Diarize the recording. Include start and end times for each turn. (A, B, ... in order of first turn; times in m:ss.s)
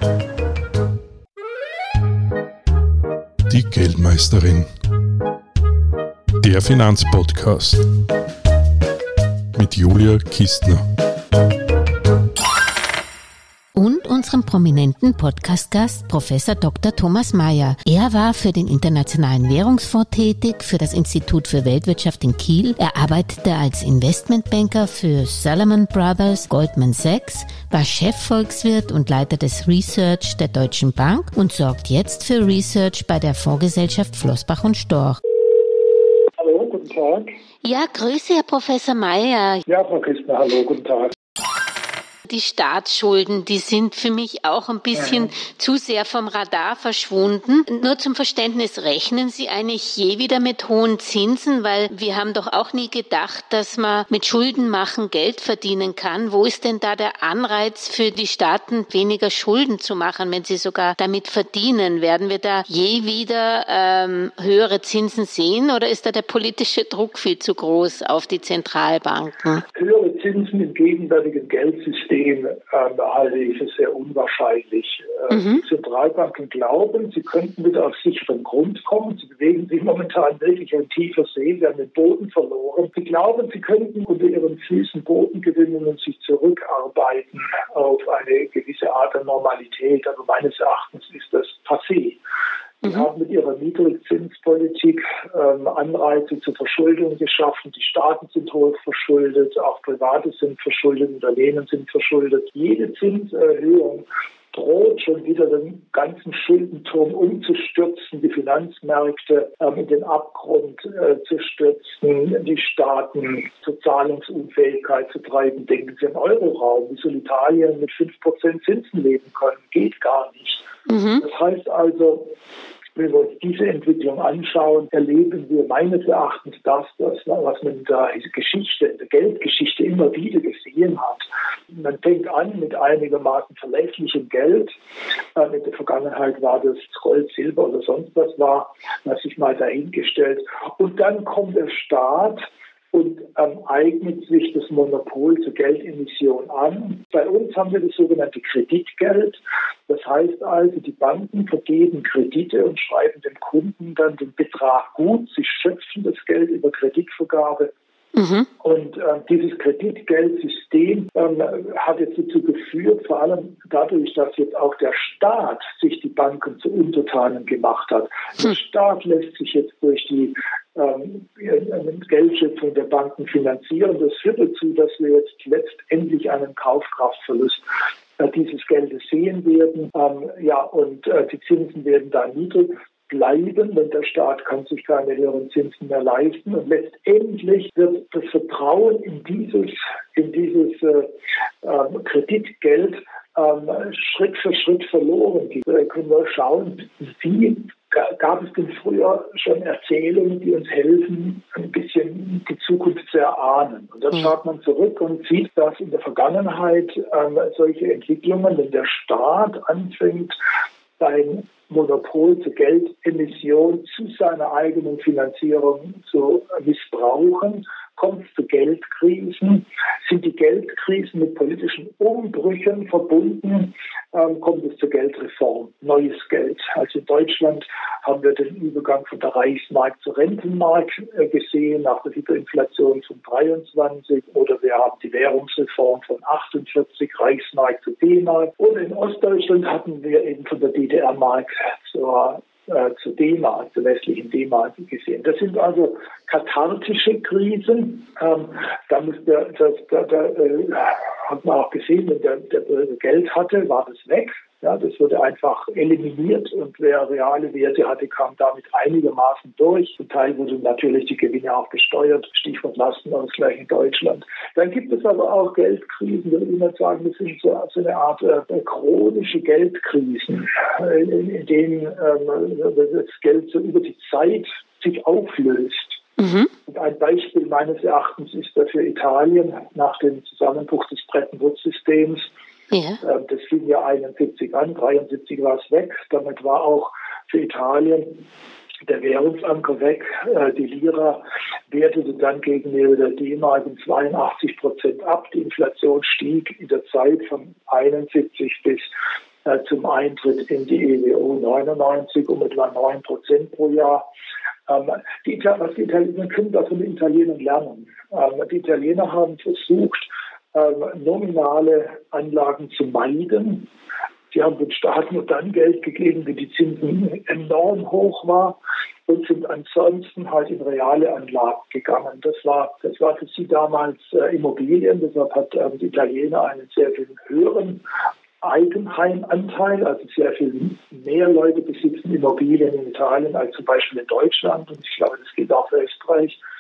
0:03.5-0:04.7 A
0:06.4-0:07.9 A
0:09.6-0:10.8 A
0:13.8-0:35.2 B
0:36.4-0:37.4 C
0:37.6-0:39.6 B
0:39.7-0:41.2 C
0:42.3-1:09.6 B
0:44.9-0:45.3 C
1:09.8-1:32.2 C
1:15.3-1:15.6 B
1:32.8-1:33.1 B
1:32.8-2:00.6 C
2:00.9-2:01.2 B
2:01.2-2:02.3 C
2:03.0-2:14.8 C
2:15.4-2:37.7 C
2:38.2-2:38.5 B
2:38.6-2:57.6 C
2:58.2-3:11.1 C
3:11.6-3:30.4 C
3:31.0-4:36.0 C
4:36.2-4:36.5 B
4:36.7-4:42.3 C
4:42.7-4:43.0 B
4:43.0-4:48.2 C
4:48.8-4:58.9 C
4:59.4-5:04.0 C
5:04.7-5:13.7 C
5:14.3-5:27.8 C
5:28.4-5:36.4 C